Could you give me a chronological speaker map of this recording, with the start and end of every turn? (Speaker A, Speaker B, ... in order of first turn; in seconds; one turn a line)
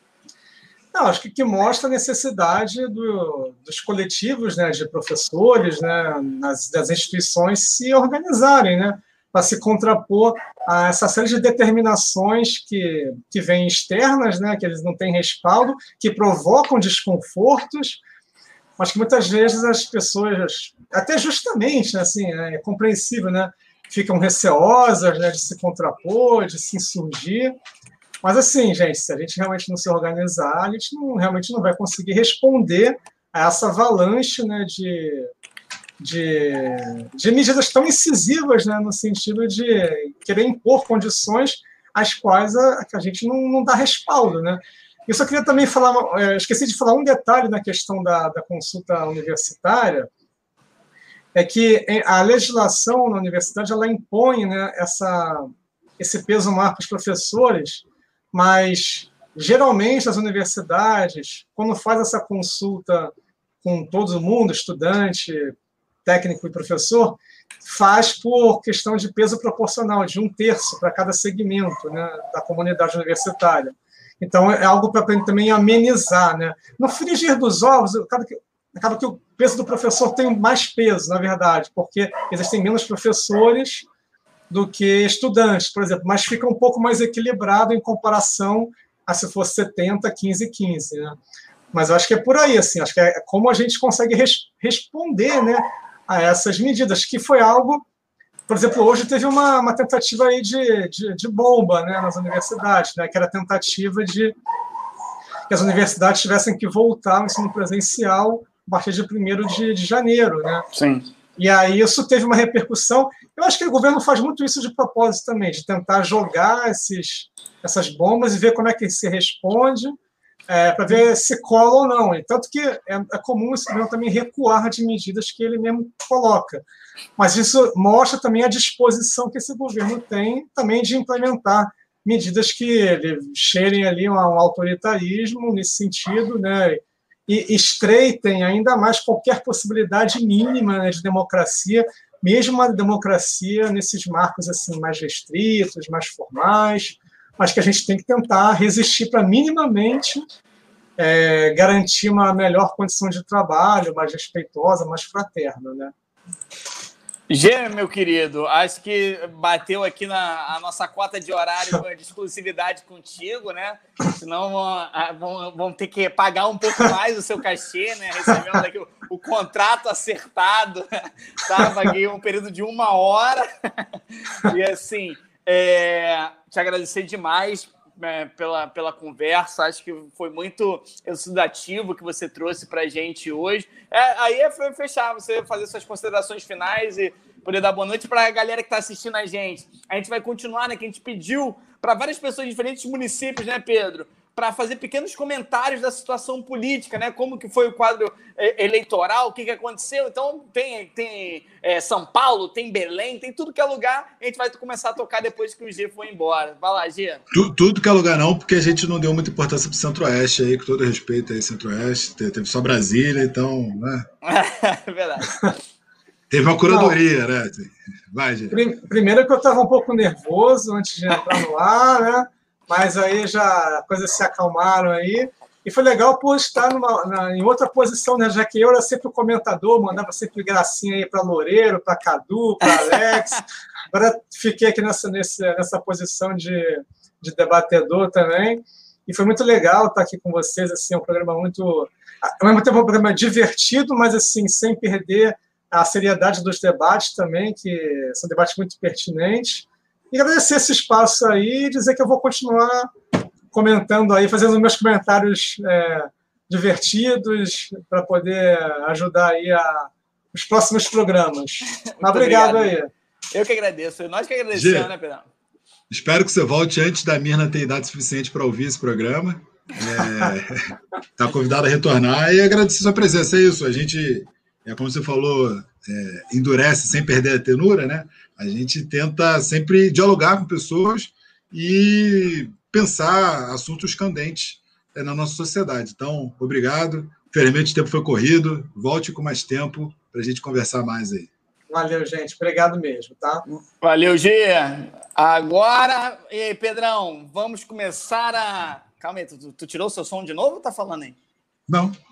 Speaker A: 0.9-18.0
Speaker A: 18.8-27.6
Speaker A: 28.2-35.3
Speaker A: 36.0-50.1
Speaker A: 51.4-63.1
Speaker A: 63.6-65.5
Speaker A: 66.0-83.9
Speaker A: 84.5-91.2
Speaker A: 91.7-97.8
Speaker A: 98.5-104.3
Speaker A: 105.5-110.7
Speaker B: 110.7-111.0
Speaker A: 111.4-120.0
Speaker A: 120.5-126.6
Speaker A: 127.2-150.2
Speaker A: 151.0-155.9
Speaker B: 157.3-170.9
Speaker B: 171.4-207.2
Speaker C: 207.3-214.1
Speaker B: 214.2-215.4
Speaker C: 216.3-218.6
Speaker A: 216.7-216.9
Speaker A: 218.5-252.9
Speaker A: 253.5-262.9
Speaker B: 261.9-262.7
Speaker B: 263.3-265.3
Speaker C: 264.5-264.9
Speaker C: 265.9-270.6
Speaker C: 271.2-291.3
Speaker A: 291.7-293.4
Speaker B: 293.8-301.2
Speaker C: 301.7-301.9